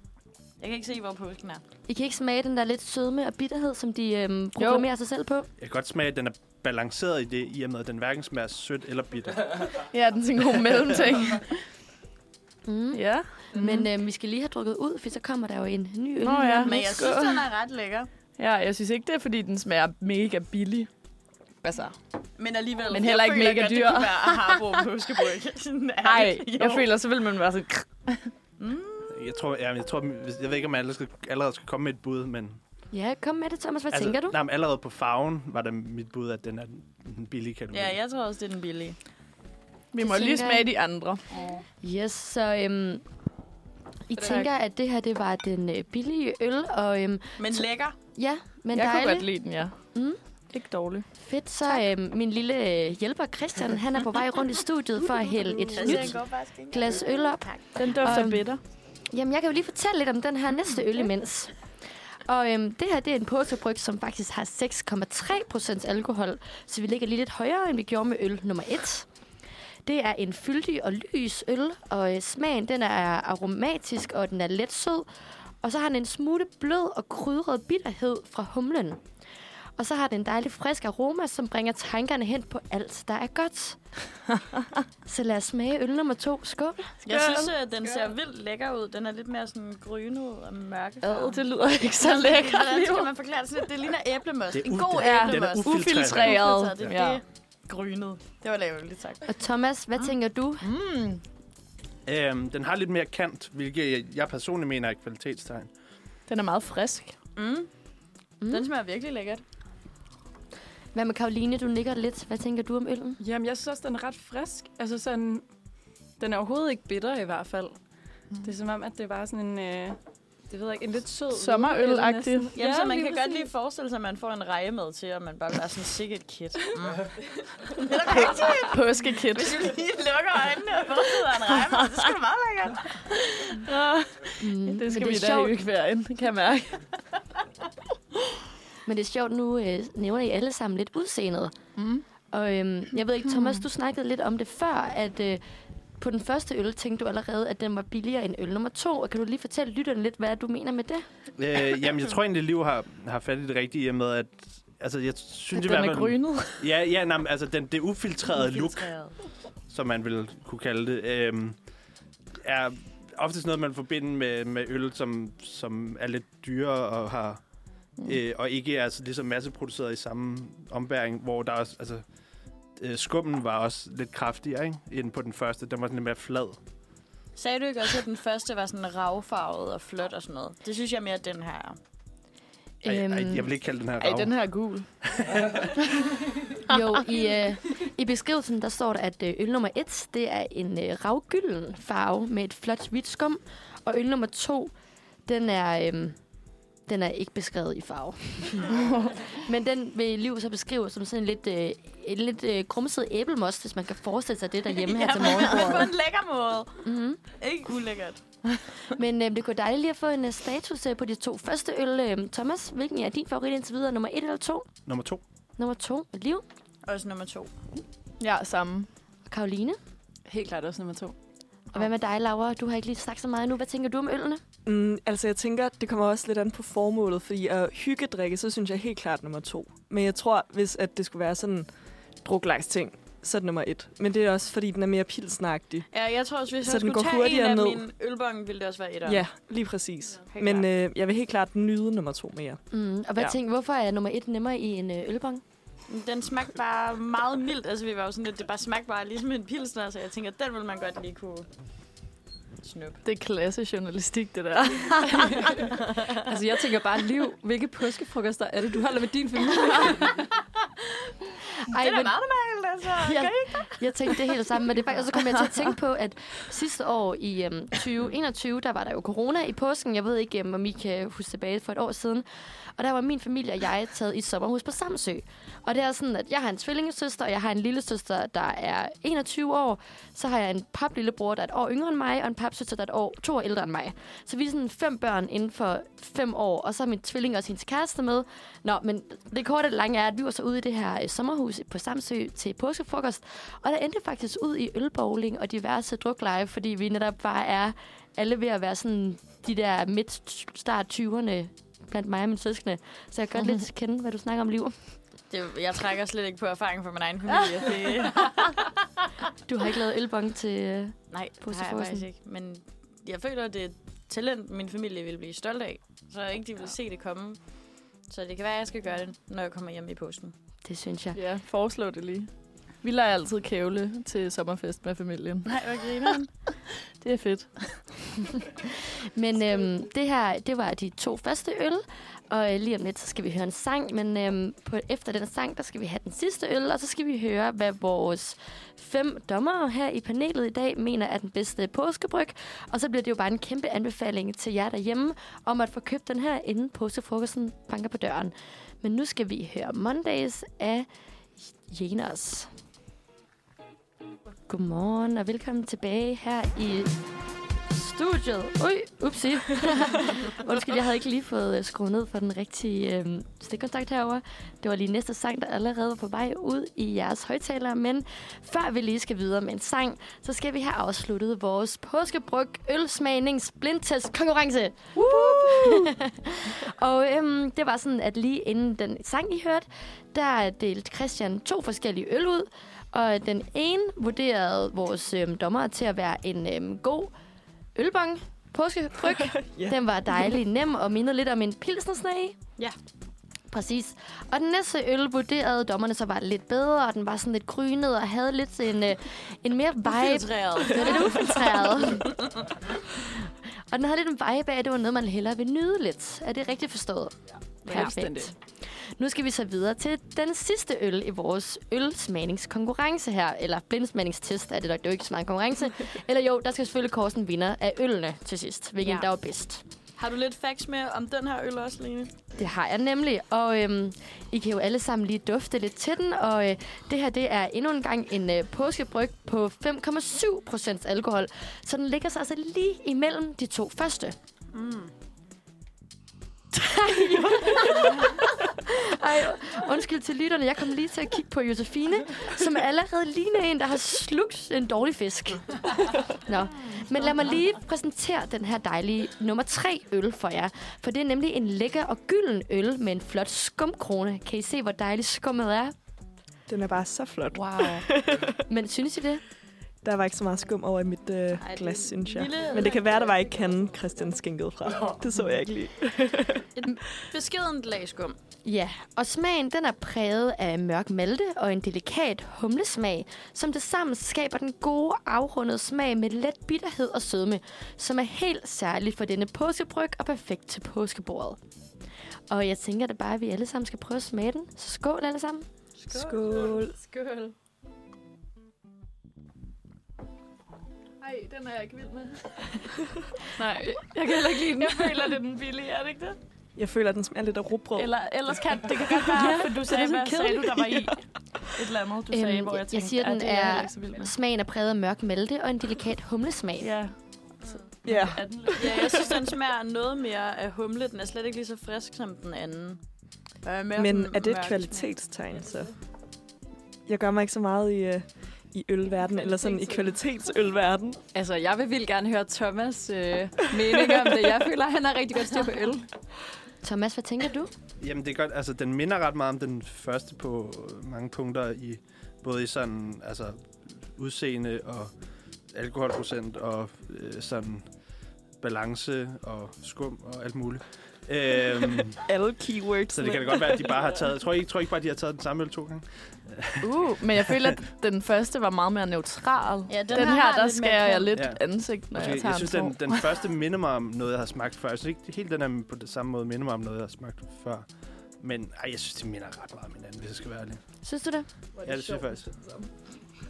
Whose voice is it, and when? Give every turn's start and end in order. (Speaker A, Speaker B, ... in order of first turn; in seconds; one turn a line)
Speaker A: 0.6-1.6
Speaker B: 1.9-5.5
Speaker C: 4.6-4.9
Speaker D: 5.6-9.8
Speaker C: 9.8-11.5
Speaker B: 12.7-16.8
Speaker C: 12.9-13.7
Speaker C: 16.2-17.5
Speaker A: 16.6-18.1
Speaker C: 18.4-20.9
Speaker C: 21.6-21.9
Speaker A: 22.4-26.9
Speaker C: 22.9-24.8
Speaker C: 26.0-28.3
Speaker A: 28.6-29.2
Speaker D: 29.1-32.6
Speaker B: 32.9-34.4
Speaker D: 33.9-38.0
Speaker A: 37.7-39.0
Speaker C: 39.9-41.2
Speaker B: 40.0-40.7
Speaker B: 41.8-43.0
Speaker B: 44.1-47.4
Speaker E: 44.2-44.5
Speaker A: 47.4-48.0
Speaker B: 48.1-49.3
Speaker C: 48.7-49.8
Speaker B: 49.9-50.2
Speaker C: 50.5-51.1
Speaker B: 51.2-58.5
Speaker C: 55.6-56.0
Speaker A: 55.7-58.0
Speaker C: 57.8-58.6
Speaker B: 59.1-61.5
Speaker B: 62.3-69.1
Speaker B: 69.8-75.1
Speaker B: 75.6-79.0
Speaker B: 79.8-83.8
Speaker B: 85.1-87.0
Speaker A: 87.0-91.4
Speaker C: 87.1-87.5
Speaker C: 91.0-93.1
Speaker A: 92.0-99.3
Speaker D: 94.5-96.5
Speaker C: 94.9-97.2
Speaker B: 99.3-100.7
Speaker C: 100.7-101.2
Speaker D: 102.1-105.7
Speaker C: 106.3-107.2
Speaker A: 107.4-107.7
Speaker A: 108.5-109.4
Speaker B: 111.0-113.2
Speaker E: 113.2-115.5
Speaker E: 116.2-117.8
Speaker E: 118.4-120.0
Speaker E: 120.5-123.5
Speaker C: 121.3-122.6
Speaker A: 122.5-133.0
Speaker C: 128.1-129.7
Speaker C: 133.1-136.9
Speaker B: 134.4-135.6
Speaker B: 138.9-141.6
Speaker B: 142.3-145.4
Speaker B: 146.0-151.1
Speaker D: 151.4-158.9
Speaker C: 155.5-156.7
Speaker A: 158.4-159.1
Speaker D: 159.7-161.6
Speaker D: 162.4-167.4
Speaker D: 168.0-172.0
Speaker D: 172.8-176.6
Speaker A: 177.4-181.8
Speaker D: 182.8-184.3
Speaker B: 182.8-183.5
Speaker C: 184.0-184.9
Speaker D: 185.0-185.7
Speaker B: 186.7-194.7
Speaker B: 195.3-196.2
Speaker B: 196.9-205.9
Speaker A: 204.7-208.2
Speaker B: 206.8-207.2
Speaker B: 208.9-214.7
Speaker D: 214.9-215.2
Speaker B: 215.6-216.4
Speaker A: 216.9-217.5
Speaker C: 218.2-218.9
Speaker B: 219.3-219.8
Speaker E: 220.3-221.2
Speaker B: 221.7-224.4
Speaker F: 224.7-231.7
Speaker F: 232.2-235.9
Speaker A: 235.9-239.2
Speaker F: 236.6-237.8
Speaker F: 239.1-242.6
Speaker A: 240.3-240.7
Speaker B: 242.7-245.4
Speaker A: 245.9-251.5
Speaker A: 252.6-253.0
Speaker C: 253.0-255.4
Speaker E: 255.0-260.2
Speaker A: 255.7-256.2
Speaker B: 261.7-262.1
Speaker A: 261.7-264.4
Speaker B: 263.0-272.2
Speaker B: 272.8-304.8
Speaker A: 305.3-308.8
Speaker B: 309.5-312.1
Speaker A: 311.1-317.4
Speaker A: 318.1-320.3
Speaker B: 320.6-321.2
Speaker C: 321.1-322.3
Speaker C: 322.8-325.6
Speaker A: 325.4-326.3
Speaker C: 327.0-327.5
Speaker B: 329.1-350.9
Speaker B: 351.4-352.5
Speaker B: 354.5-357.0
Speaker B: 357.7-387.1
Speaker C: 375.0-375.9
Speaker B: 387.8-392.4
Speaker F: 389.2-389.8
Speaker B: 393.5-402.2
Speaker A: 399.9-402.1
Speaker B: 403.7-408.3
Speaker E: 407.7-408.3
Speaker A: 407.7-407.9
Speaker B: 409.0-419.6
Speaker A: 418.8-419.1
Speaker A: 420.0-422.1
Speaker B: 422.4-434.2
Speaker A: 434.5-434.9
Speaker B: 436.5-455.8
Speaker F: 456.5-458.3
Speaker B: 457.3-459.2
Speaker F: 459.8-466.5
Speaker A: 461.4-463.5
Speaker A: 466.6-468.2
Speaker B: 468.4-481.4
Speaker B: 482.3-485.4
Speaker A: 485.8-486.6
Speaker F: 485.9-486.7
Speaker C: 486.0-487.3
Speaker C: 491.0-492.5
Speaker C: 493.4-496.2
Speaker E: 493.4-495.2
Speaker F: 496.6-498.0
Speaker C: 497.7-501.0
Speaker A: 498.9-500.8
Speaker E: 499.2-500.1
Speaker C: 501.6-504.1
Speaker B: 502.1-506.7
Speaker C: 506.6-506.9
Speaker F: 507.9-509.1
Speaker E: 507.9-508.7
Speaker C: 508.2-508.9
Speaker A: 508.5-512.8
Speaker A: 513.4-514.9
Speaker F: 513.8-515.7
Speaker F: 516.9-521.0
Speaker E: 521.1-525.9
Speaker B: 526.6-527.5
Speaker D: 527.8-534.9
Speaker D: 535.5-537.6
Speaker D: 538.4-542.0
Speaker F: 542.0-543.9
Speaker D: 542.9-547.5
Speaker C: 546.6-553.1
Speaker A: 549.7-551.2
Speaker D: 551.1-551.4
Speaker D: 551.9-557.7
Speaker D: 558.2-560.6
Speaker B: 560.8-561.3
Speaker D: 561.6-562.3
Speaker F: 561.7-562.0